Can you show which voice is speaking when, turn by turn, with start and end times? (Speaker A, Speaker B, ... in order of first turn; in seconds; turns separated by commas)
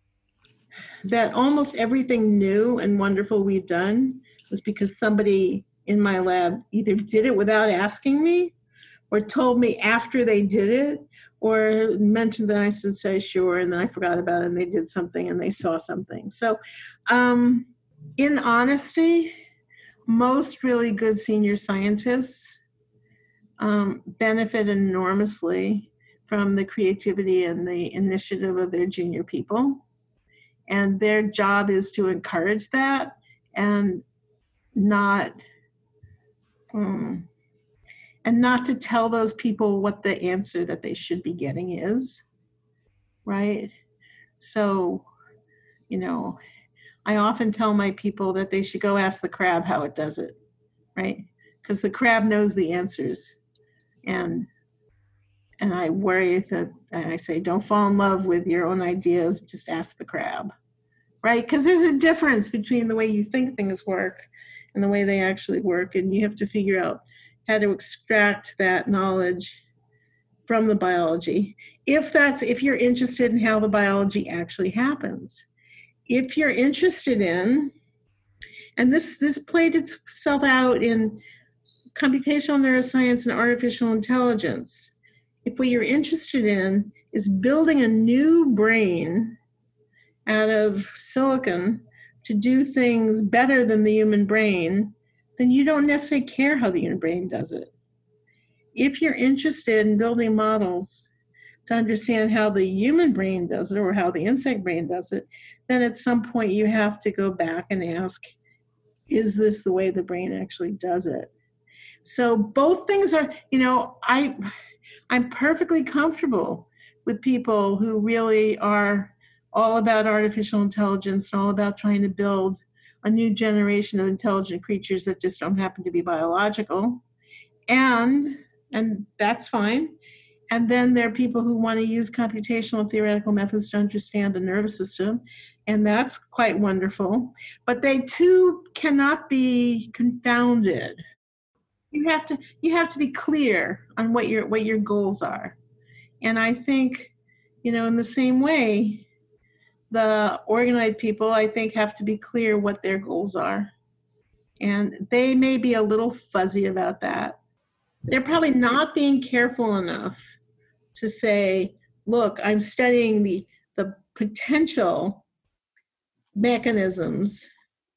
Speaker A: 1.1-8.6, Speaker A: 9.1-19.3, Speaker A: 20.1-22.6, Speaker A: 23.6-29.8, Speaker A: 30.7-34.0, Speaker A: 34.8-35.4, Speaker A: 36.7-37.3, Speaker A: 38.2-42.2, Speaker A: 43.2-43.7, Speaker A: 44.4-45.1, Speaker A: 45.9-46.4, Speaker A: 47.0-50.4, Speaker A: 51.0-53.4, Speaker A: 54.0-54.5, Speaker A: 55.6-60.5, Speaker A: 61.2-69.6, Speaker A: 70.5-75.5, Speaker A: 76.1-77.7, Speaker A: 78.8-81.2, Speaker A: 81.9-84.9, Speaker A: 85.4-89.4, Speaker A: 90.2-97.7, Speaker A: 98.7-101.0, Speaker A: 101.7-108.3, Speaker A: 109.1-111.3, Speaker A: 112.0-114.4, Speaker A: 115.1-127.0, Speaker A: 127.7-129.9, Speaker A: 130.5-141.0, Speaker A: 141.9-145.6, Speaker A: 146.2-149.1, Speaker A: 149.9-153.7, Speaker A: 154.6-157.4, Speaker A: 158.1-160.4, Speaker A: 160.9-165.2, Speaker A: 166.4-167.5